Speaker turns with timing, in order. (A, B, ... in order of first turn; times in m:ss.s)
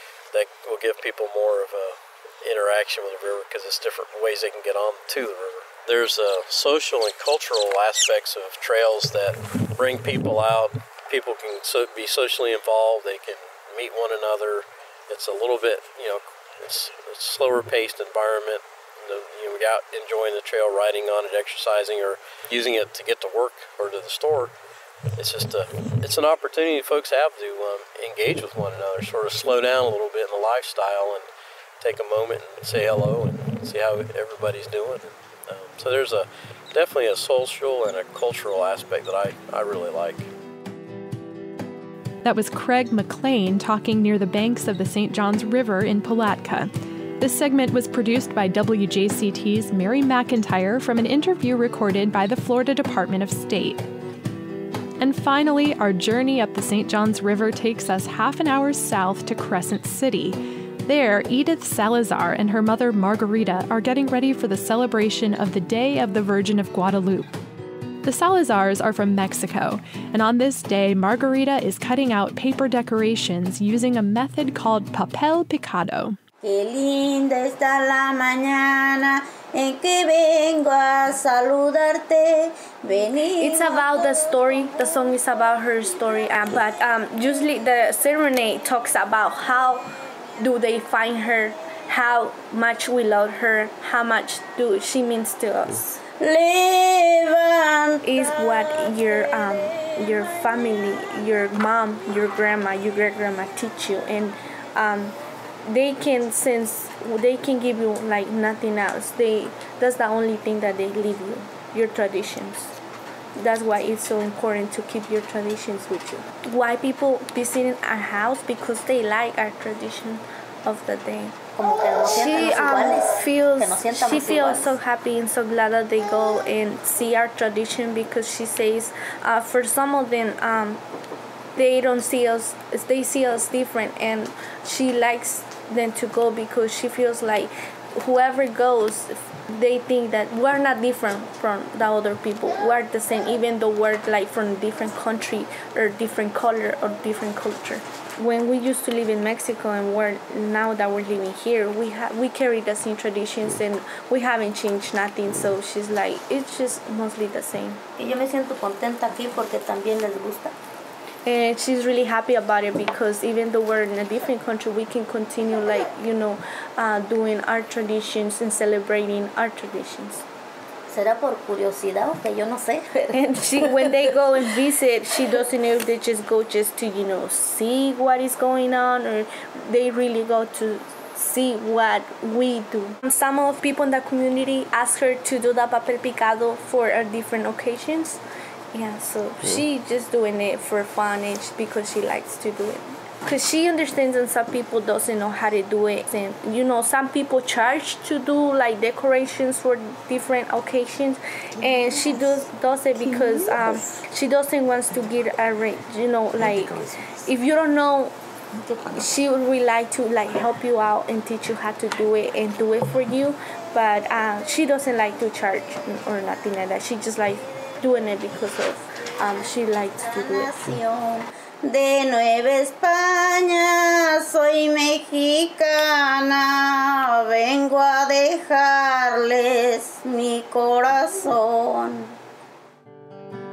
0:00.3-0:24.5 A
0:25.2-0:31.3 A
0:31.8-0:40.3 A
0:42.2-0:53.8 B
0:55.0-1:07.3 B
1:08.0-1:16.2 B
1:16.4-1:23.9 C
1:23.4-1:29.8 D
1:30.4-1:36.0 D
1:36.2-1:38.0 C
1:38.0-1:52.7 D
1:53.4-2:01.4 D
2:01.6-2:04.7 C
2:02.0-2:10.8 D
2:11.6-2:37.8 D
2:38.0-2:40.5 C
2:41.2-2:50.2 D
2:50.9-2:53.9 C
2:53.1-3:08.2 D
3:08.7-3:28.1 D
3:28.8-3:40.6 D
3:40.0-3:52.2 C